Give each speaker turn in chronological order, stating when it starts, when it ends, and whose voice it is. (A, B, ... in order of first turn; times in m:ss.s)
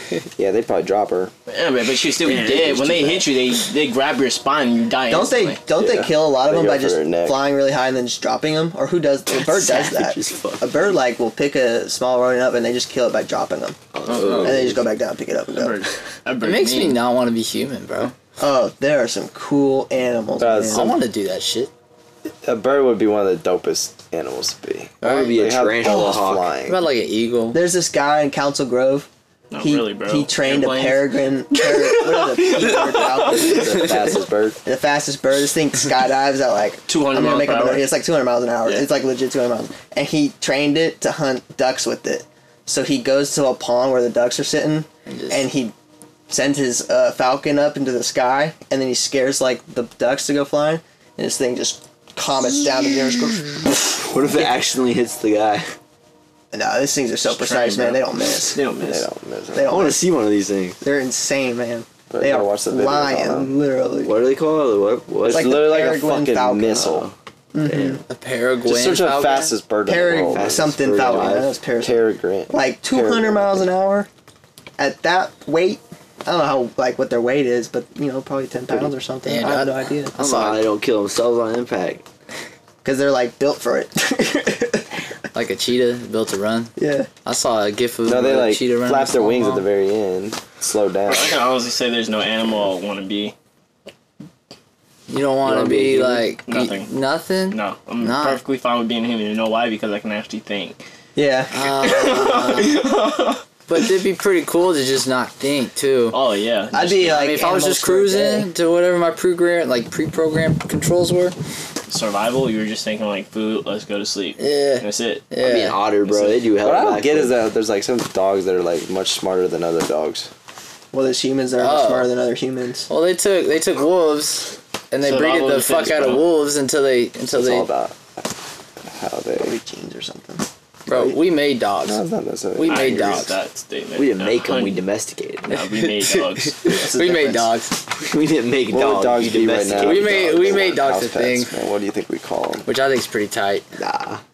0:00.4-0:01.3 A
0:01.5-0:05.6 B
0:02.2-0:03.3 C
0:05.1-0:13.8 D
0:05.7-0:07.4 A
0:09.3-0:10.8 C
0:13.9-0:14.8 C
0:14.1-0:14.6 B
0:14.4-0:15.9 D
0:15.5-0:17.0 B
0:16.4-0:18.1 E
0:18.4-0:20.9 D
0:20.4-0:20.9 A
0:20.7-0:21.7 E
0:22.4-0:26.8 A
0:25.0-0:26.5 C
0:25.0-0:25.4 E
0:25.9-0:26.1 D
0:26.6-0:27.6 E
0:27.5-0:29.1 D
0:29.5-0:33.5 B
0:29.6-0:34.0 D
0:33.4-0:34.6 A
0:33.4-0:34.2 C
0:34.6-0:45.7 D
0:36.9-0:37.9 B
0:45.1-0:45.5 E
0:46.3-0:53.8 D
0:53.8-0:55.7 C
0:56.5-0:58.7 D
0:57.2-0:59.0 B
0:58.7-0:59.8 A
0:59.5-1:00.0 D
0:59.6-1:00.8 C
1:00.8-1:04.2 D
1:02.1-1:03.5 A
1:04.0-1:05.7 C
1:05.2-1:07.1 A
1:05.3-1:06.8 D
1:06.6-1:08.0 C
1:07.5-1:08.0 D
1:08.1-1:09.5 E
1:08.6-1:13.6 A
1:09.8-1:14.1 D
1:10.3-1:11.6 C
1:14.8-1:20.1 D
1:19.2-1:20.6 E
1:20.2-1:22.0 C
1:22.8-1:24.9 D
1:25.3-1:29.7 E
1:26.8-1:27.1 D
1:28.0-1:31.4 A
1:31.1-1:33.3 B
1:35.1-1:38.4 E
1:35.5-1:36.2 C
1:35.5-1:36.2 A
1:36.5-1:36.9 B
1:37.5-1:40.8 B
1:41.2-1:41.5 D
1:41.5-1:42.8 E
1:41.8-1:43.4 B
1:43.7-1:46.2 E
1:46.1-1:47.2 B
1:46.7-1:48.5 D
1:47.0-1:51.3 E
1:51.9-1:55.2 B
1:54.4-1:55.8 E
1:55.4-1:57.4 C
1:56.0-1:56.5 B
1:56.6-2:00.3 A
2:00.9-2:02.9 D
2:01.6-2:02.1 E
2:02.9-2:07.7 E
2:05.0-2:06.3 B
2:07.3-2:08.3 A
2:08.8-2:09.6 A
2:09.3-2:10.4 D
2:10.9-2:13.3 E
2:11.8-2:13.3 A
2:12.7-2:14.8 B
2:14.0-2:15.5 C
2:15.5-2:16.7 B
2:15.5-2:17.8 E
2:16.7-2:17.5 D
2:17.9-2:20.7 C
2:18.7-2:22.7 A
2:19.7-2:21.5 E
2:22.6-2:23.6 E
2:23.8-2:24.2 C